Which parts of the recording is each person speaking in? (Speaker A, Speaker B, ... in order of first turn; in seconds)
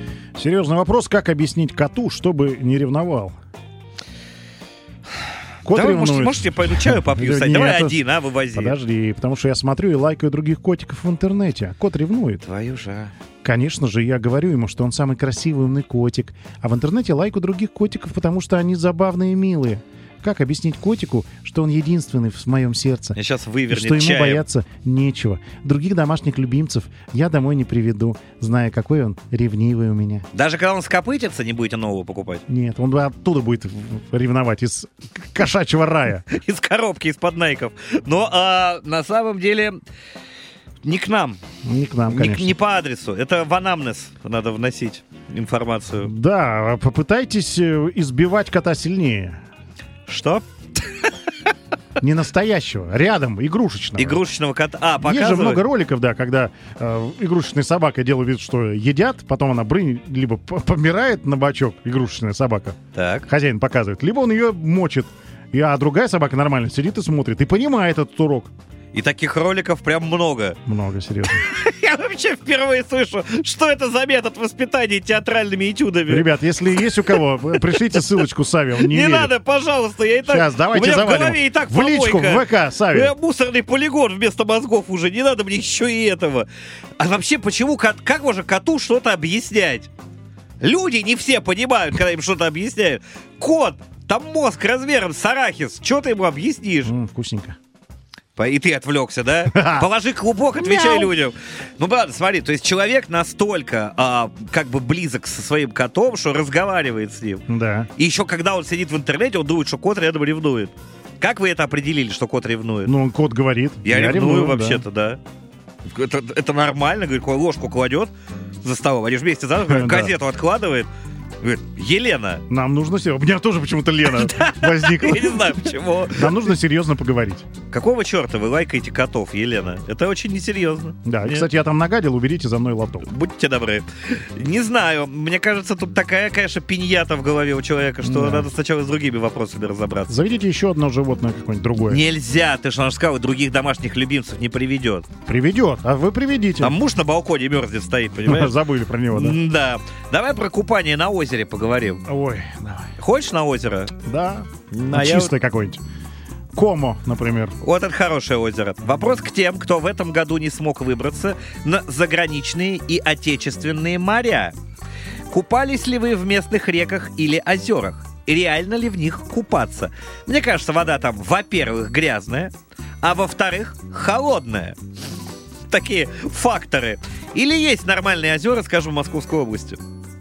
Speaker A: 0.4-3.4, 5.7-8.0, 8.5-12.4, 13.4-23.2, 23.7-30.3, 32.5-36.2, 41.6-42.6, 46.0-49.4, 52.0-54.2, 55.0-68.5, 70.7-71.4, 76.1-79.3, 80.3-83.1, 96.8-97.6, 99.5-99.9, 100.5-101.1, 107.5-107.9, 112.8-114.8, 119.6-120.2, 122.5-127.5, 131.1-133.1, 138.0-138.5, 140.1-142.0, 145.3-146.8, 148.2-149.4, 152.1-152.9, 154.1-155.8, 156.6-157.6
Speaker B: 5.7-8.8, 12.4-13.1, 23.1-24.5, 30.3-32.4, 36.3-39.8, 40.8-41.4, 42.1-46.1, 50.1-51.1, 54.0-55.6, 62.9-63.3, 68.9-70.6, 71.3-76.3, 77.1-78.0, 78.8-89.9, 90.6-96.9, 98.4-107.5, 108.0-113.0, 113.8-115.2, 115.9-120.9, 121.4-122.4, 124.1-126.4, 127.7-131.5, 133.0-140.2, 141.9-145.1, 146.6-148.5, 149.1-152.1, 153.0-153.9, 154.7-155.3, 157.6-164.5, 165.3-174.8, 175.7-179.8